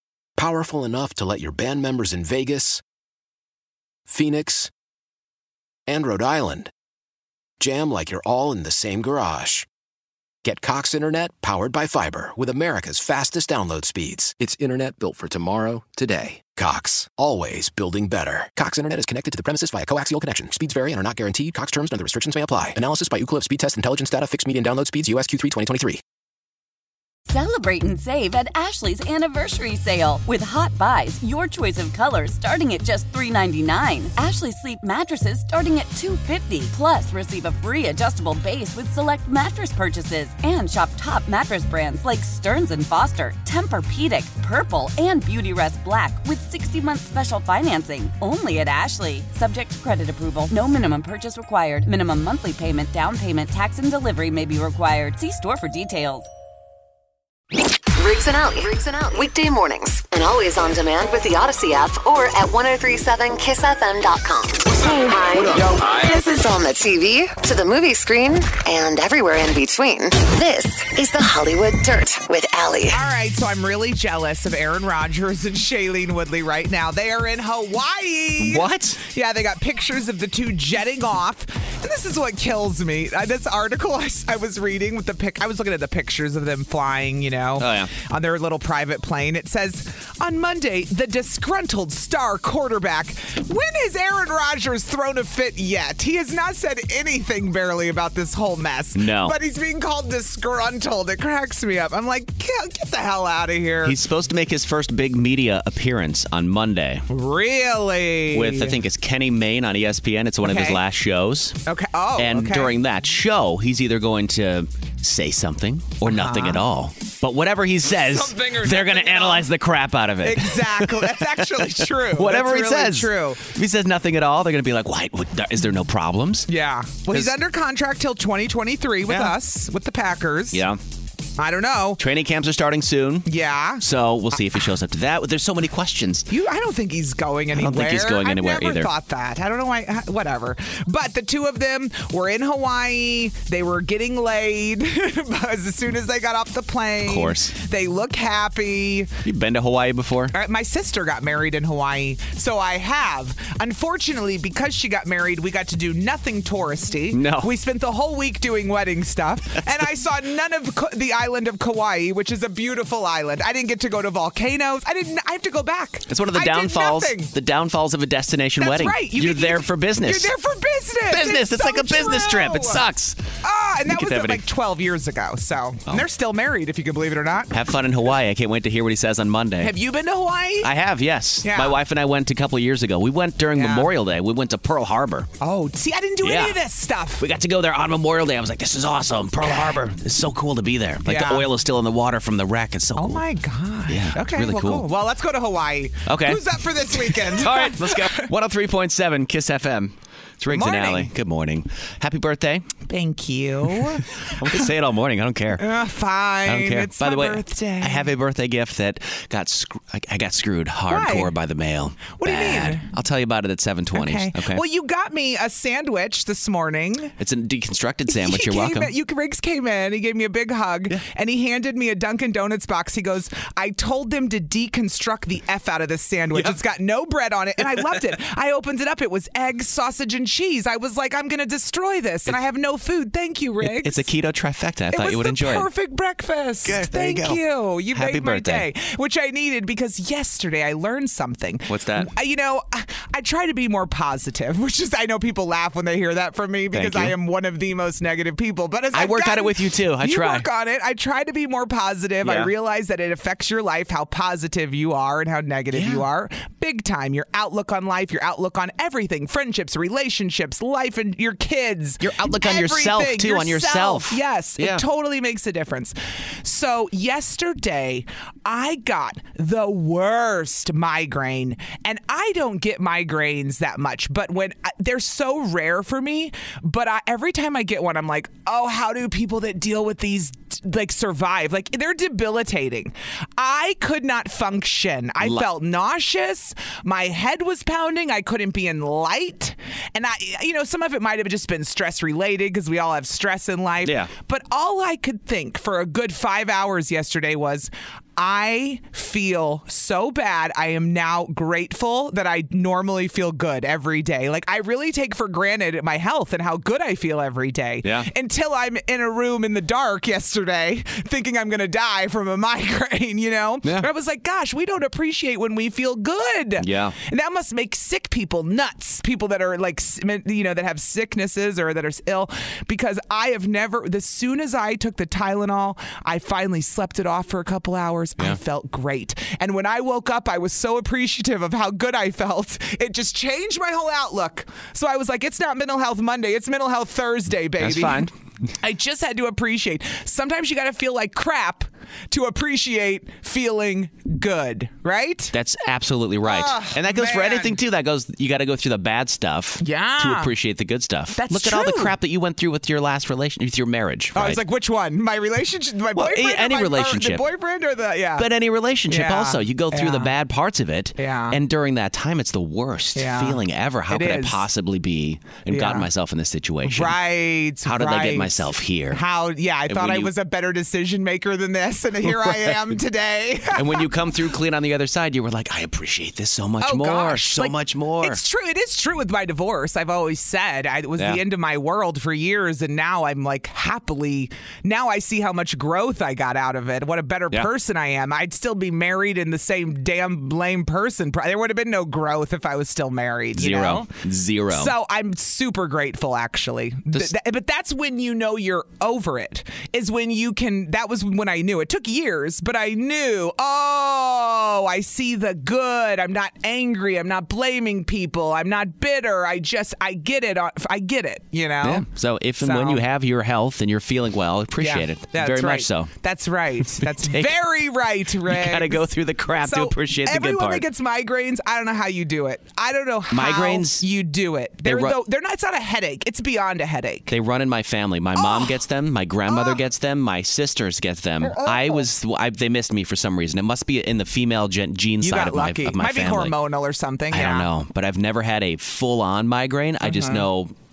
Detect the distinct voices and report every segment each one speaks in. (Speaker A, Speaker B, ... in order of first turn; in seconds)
Speaker A: 0.4-2.8, 4.1-4.7, 5.9-6.7, 7.6-9.7, 10.4-26.0
Speaker B: 27.3-56.3
Speaker C: 58.0-73.0
Speaker D: 72.9-104.0, 107.1-108.8, 110.4-110.8, 111.7-112.7, 116.0-116.6, 118.0-119.5, 120.2-123.5, 126.5-130.6, 131.4-132.0, 133.3-133.8, 136.3-149.1, 150.3-167.3, 168.6-172.8, 173.4-177.6, 179.6-180.7, 181.4-181.8, 183.6-183.9, 185.4-187.2, 191.1-191.5, 193.0-198.3, 200.5-201.1, 202.9-204.7, 205.6-208.1, 210.9-211.3, 212.1-212.8, 213.9-217.1, 218.1-234.1, 234.9-338.1, 338.6-345.3, 346.2-347.6, 349.6-350.3, 351.1-351.9, 354.1-358.3, 358.9-360.1, 361.0-361.4, 363.0-364.4, 365.5-365.9, 366.6-373.9, 376.6-393.9, 394.5-411.9, 412.4-412.8, 414.6-418.9, 419.4-427.1, 428.2-428.6, 429.3-429.6, 431.2-431.9, 435.0-437.5, 439.8-440.2
Speaker E: 78.4-79.0, 87.6-87.9, 99.0-99.4, 103.8-107.1, 108.3-111.6, 112.2-126.5, 127.1-127.4, 129.1-129.3, 130.5-130.8, 132.0-133.3, 133.8-136.3, 137.5-138.9, 147.1-147.5, 149.2-150.3, 157.1-157.5, 166.1-170.3, 171.1-173.2, 173.9-174.4, 177.5-179.7, 180.6-185.3, 186.2-186.6, 187.2-193.2, 193.9-194.9, 196.1-202.7, 203.7-205.7, 206.4-214.6, 217.2-218.9, 226.3-226.6, 227.6-228.0, 233.6-235.7, 236.7-237.4, 237.9-238.7, 241.7-242.1, 246.7-247.2, 248.9-250.5, 252.2-252.5, 255.7-256.1, 262.0-264.8, 285.2-285.5, 293.8-294.1, 307.8-308.1, 316.6-316.9, 337.6-338.1, 345.3-354.4, 355.9-357.2, 358.2-367.0, 367.6-369.0, 369.7-370.1, 372.0-372.8, 373.5-378.2, 381.0-381.2, 393.3-394.7, 411.6-415.9, 416.8-417.4, 418.3-420.7, 423.1-423.8, 424.6-425.0, 427.1-436.3, 437.1-440.5